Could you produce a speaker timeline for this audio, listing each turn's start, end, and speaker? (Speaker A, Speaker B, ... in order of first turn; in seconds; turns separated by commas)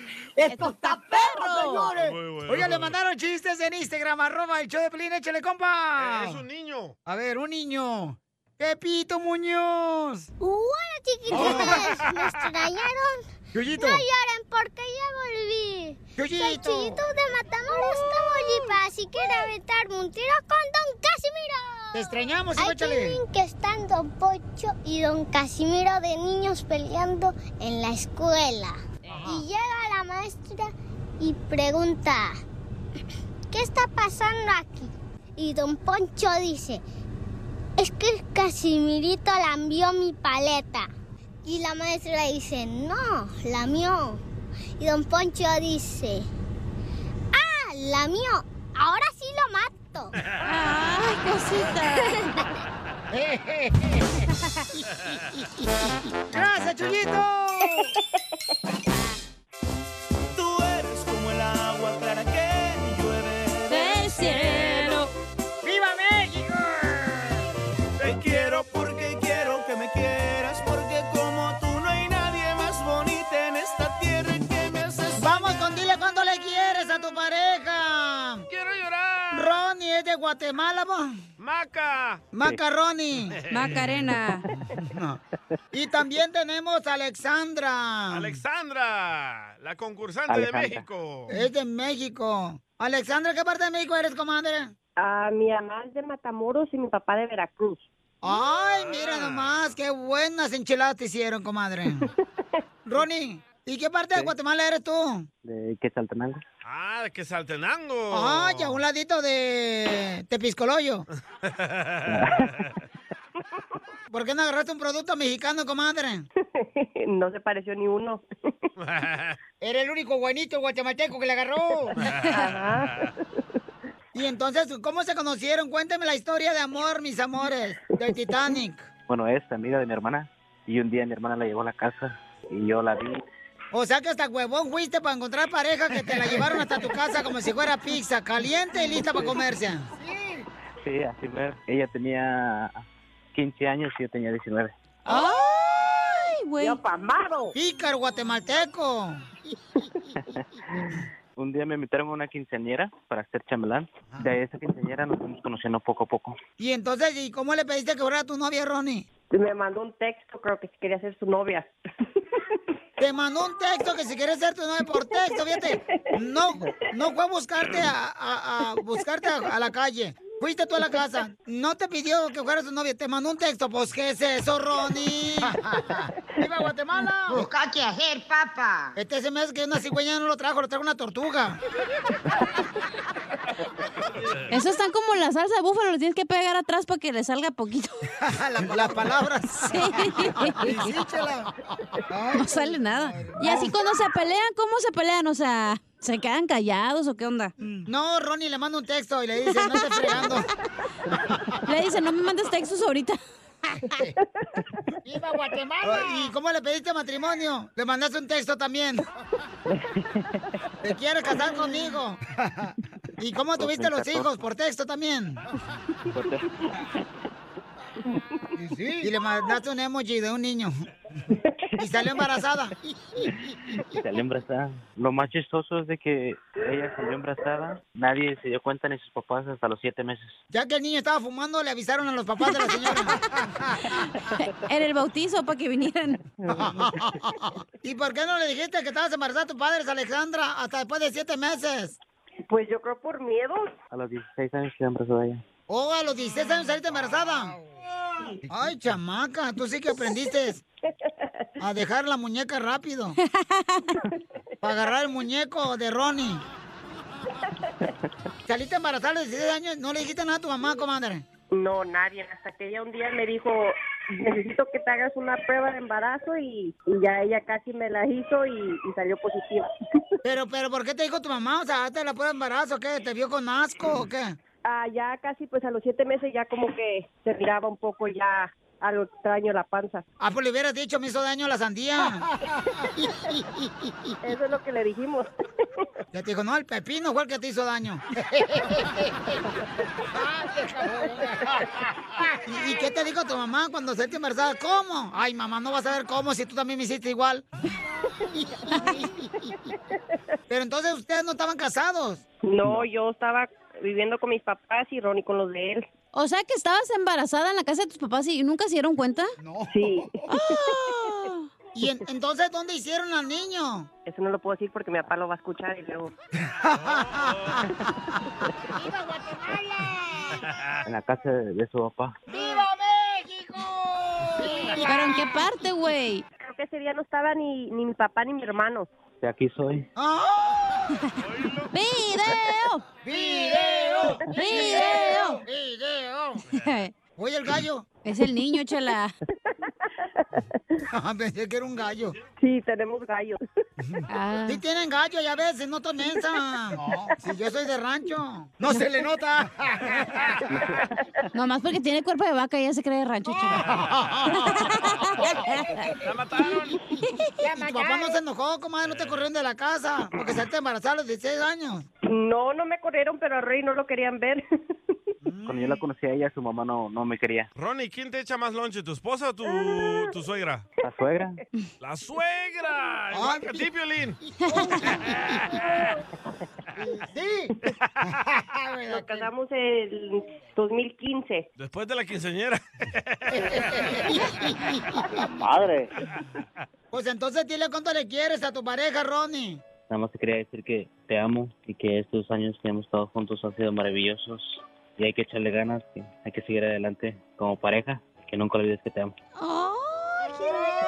Speaker A: 0.4-1.9, Speaker B: 1.1-1.9, Speaker C: 1.9-2.9, Speaker B: 2.5-6.4, Speaker C: 6.0-6.9, Speaker B: 7.0-10.3, Speaker D: 10.4-32.4, Speaker B: 11.3-11.8, Speaker C: 11.3-12.7, Speaker B: 13.5-14.0, Speaker B: 16.1-17.0, Speaker B: 21.9-23.2, Speaker D: 33.5-36.8, Speaker D: 37.8-40.9, Speaker D: 41.4-44.2, Speaker D: 44.8-46.3, Speaker D: 47.3-50.1, Speaker A: 50.4-52.2, Speaker B: 53.1-54.2, Speaker B: 54.8-55.6, Speaker B: 56.3-57.9, Speaker E: 60.3-64.6, Speaker A: 63.7-65.1, Speaker B: 65.6-67.5, Speaker E: 68.0-75.3, Speaker B: 75.2-78.5, Speaker C: 78.5-79.5, Speaker B: 79.3-81.2, Speaker C: 81.4-82.3, Speaker B: 82.3-83.4, Speaker C: 83.5-83.9, Speaker A: 83.5-84.4, Speaker B: 84.7-85.2, Speaker B: 85.7-88.4, Speaker C: 88.1-91.3, Speaker F: 90.3-90.9, Speaker B: 91.3-94.7, Speaker G: 95.0-97.9, Speaker B: 98.2-102.1, Speaker C: 98.6-99.6, Speaker B: 102.8-105.3, Speaker F: 105.4-106.4, Speaker C: 106.6-108.8, Speaker B: 108.1-111.0, Speaker C: 111.4-112.2, Speaker F: 112.0-112.6, Speaker B: 114.1-116.2, Speaker G: 116.6-118.2, Speaker C: 118.8-119.4, Speaker B: 119.6-122.0, Speaker C: 122.0-123.1, Speaker G: 122.3-123.1, Speaker B: 124.1-128.9, Speaker F: 129.1-133.2, Speaker B: 133.7-140.4, Speaker F: 140.8-144.7, Speaker A: 145.1-146.8, Speaker G: 146.7-147.5, Speaker B: 147.5-149.3, Speaker F: 151.3-156.4, Speaker B: 156.6-159.1, Speaker G: 159.3-161.7, Speaker B: 163.0-175.6, Speaker B: 176.4-177.4, Speaker B: 178.9-181.6, Speaker A: 184.5-188.1, Speaker B: 188.2-191.5, Speaker A: 189.6-190.8, Speaker B: 192.1-193.7, Speaker A: 192.3-197.5, Speaker B: 197.8-200.5, Speaker A: 199.5-200.4, Speaker A: 201.6-203.2, Speaker B: 203.9-204.1, Speaker B: 205.0-209.0, Speaker B: 210.8-215.4, Speaker F: 213.6-214.3, Speaker F: 216.1-216.4, Speaker B: 219.0-220.9, Speaker B: 221.8-223.3, Speaker F: 223.9-230.4, Speaker B: 230.5-233.2, Speaker A: 233.9-236.2, Speaker F: 236.4-236.8, Speaker B: 236.5-241.9, Speaker G: 242.5-243.7, Speaker F: 243.9-245.4, Speaker B: 245.7-247.6, Speaker B: 248.5-250.6, Speaker B: 251.6-253.2, Speaker A: 253.4-253.9, Speaker B: 254.6-256.4, Speaker B: 258.4-261.2, Speaker G: 261.5-269.7, Speaker B: 270.2-274.4, Speaker G: 274.7-280.0, Speaker B: 280.2-282.3, Speaker B: 283.0-283.4, Speaker G: 284.2-285.3, Speaker B: 286.1-289.4, Speaker B: 290.1-297.4, Speaker G: 291.0-291.6, Speaker G: 298.2-299.9, Speaker B: 298.3-299.3, Speaker B: 300.5-302.2, Speaker G: 302.4-305.9, Speaker A: 306.1-309.3, Speaker B: 309.4-309.7, Speaker G: 309.7-310.6, Speaker A: 310.3-311.5, Speaker B: 311.7-313.9, Speaker G: 314.1-316.1, Speaker B: 316.6-317.6, Speaker C: 317.0-317.5, Speaker B: 318.7-320.4, Speaker F: 320.9-322.2, Speaker B: 322.3-325.3, Speaker A: 324.9-326.2, Speaker G: 326.4-328.9, Speaker F: 329.2-329.9, Speaker B: 329.9-331.0, Speaker C: 331.2-331.7, Speaker A: 331.7-332.8, Speaker B: 333.0-336.4, Speaker A: 334.3-335.4, Speaker A: 336.5-336.9, Speaker B: 337.2-337.9, Speaker A: 338.0-339.1, Speaker G: 339.5-340.8, Speaker B: 340.9-342.1, Speaker G: 342.4-343.4, Speaker B: 343.8-350.2, Speaker A: 344.1-344.6, Speaker F: 350.5-350.9, Speaker G: 350.6-351.0, Speaker A: 351.3-353.7, Speaker C: 353.5-354.1, Speaker B: 353.7-354.5, Speaker A: 354.3-355.8, Speaker C: 356.0-356.9, Speaker A: 357.0-357.5, Speaker B: 357.4-361.9, Speaker C: 358.9-359.2, Speaker G: 362.1-364.4, Speaker B: 365.2-365.8, Speaker F: 365.4-367.5, Speaker C: 367.6-370.6, Speaker F: 370.8-371.4, Speaker C: 371.8-374.2, Speaker B: 373.1-373.7, Speaker A: 374.4-374.8, Speaker B: 374.5-375.4, Speaker B: 376.8-377.5, Speaker B: 378.1-379.3, Speaker G: 378.9-381.5, Speaker C: 381.6-383.9, Speaker B: 383.4-385.0, Speaker B: 386.9-389.6, Speaker F: 389.9-399.1, Speaker A: 399.4-400.5